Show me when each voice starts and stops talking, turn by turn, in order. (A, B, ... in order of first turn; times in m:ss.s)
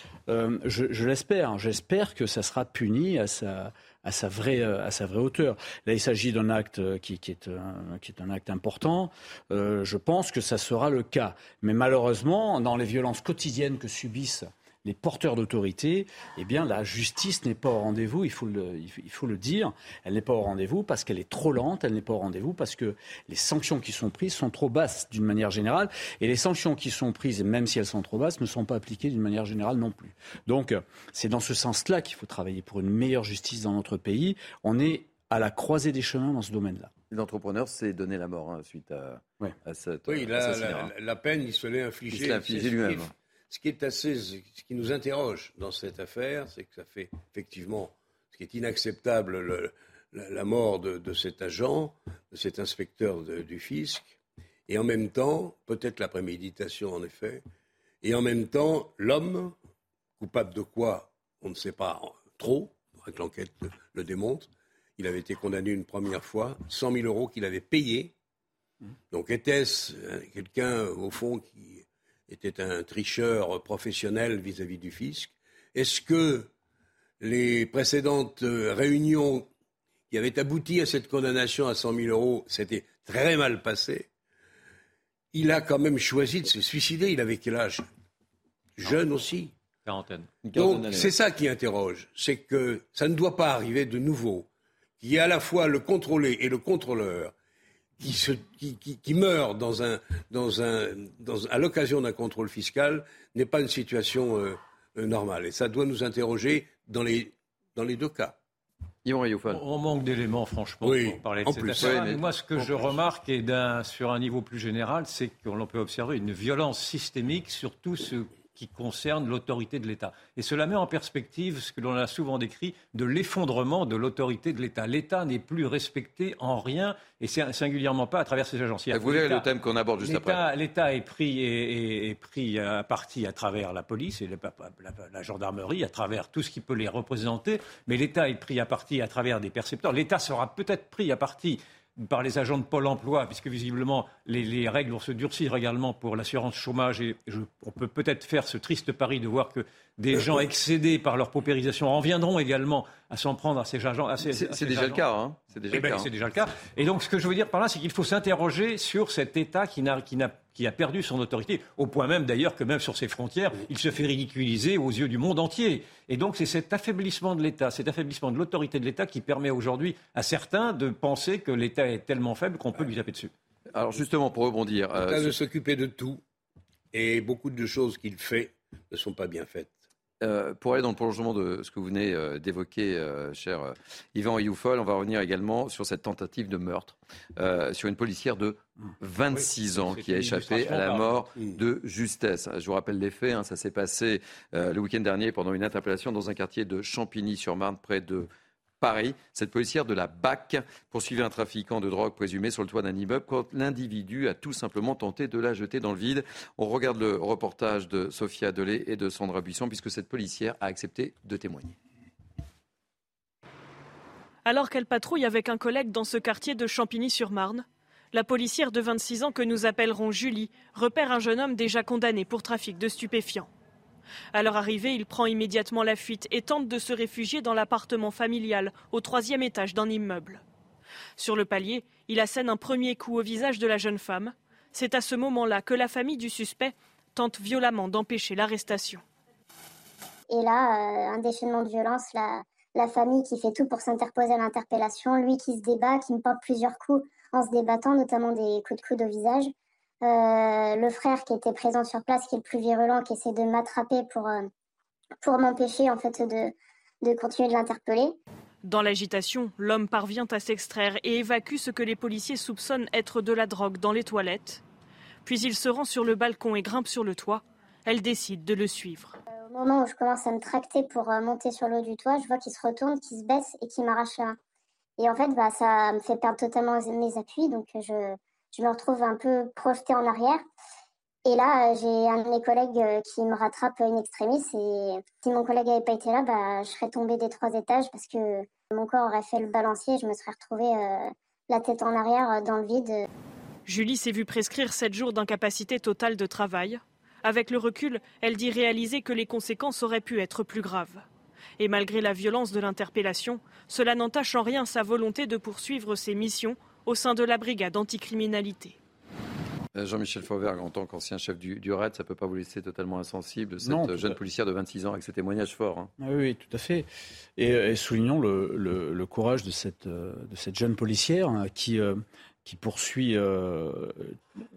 0:00.3-0:36.9 A
0:37.1-0:40.9 B
0:40.1-0:54.1 C
0:42.1-0:43.1 B
0:54.7-0:57.4 C
0:58.0-0:59.5 C
1:00.2-1:08.1 C
1:09.1-1:16.5 C
1:17.2-1:19.4 C
1:20.1-1:24.1 C
1:25.3-1:27.8 C
1:28.8-1:29.5 C
1:29.8-1:30.3 D
1:30.4-1:31.1 B
1:30.5-1:34.4 C
1:35.0-1:37.3 C
1:38.0-1:48.3 C
1:49.0-1:49.6 B
1:49.5-2:09.5 D
1:50.8-1:52.1 C
1:51.8-1:52.7 B
2:08.9-2:10.4 B
2:10.0-2:35.0 D
2:34.3-2:36.1 B
2:35.7-2:53.3 D
2:53.7-2:55.3 B
2:55.0-2:56.2 C
2:56.9-2:59.7 C
3:00.2-3:18.3 B
3:09.7-3:11.3 D
3:18.8-3:31.8 B
3:34.4-3:43.5 E
3:44.3-3:50.4 E
3:51.2-3:59.0 E
4:00.3-4:09.5 F
4:10.0-4:14.5 F
4:15.2-4:18.1 F
4:18.6-4:24.6 E
4:25.2-4:29.2 E
4:29.3-4:34.4 F
4:35.0-4:40.4 F
4:41.2-4:53.1 F
4:53.6-5:01.0 E
5:01.6-5:08.8 E
5:09.7-5:15.9 B
5:13.6-5:14.2 A
5:16.0-5:24.2 A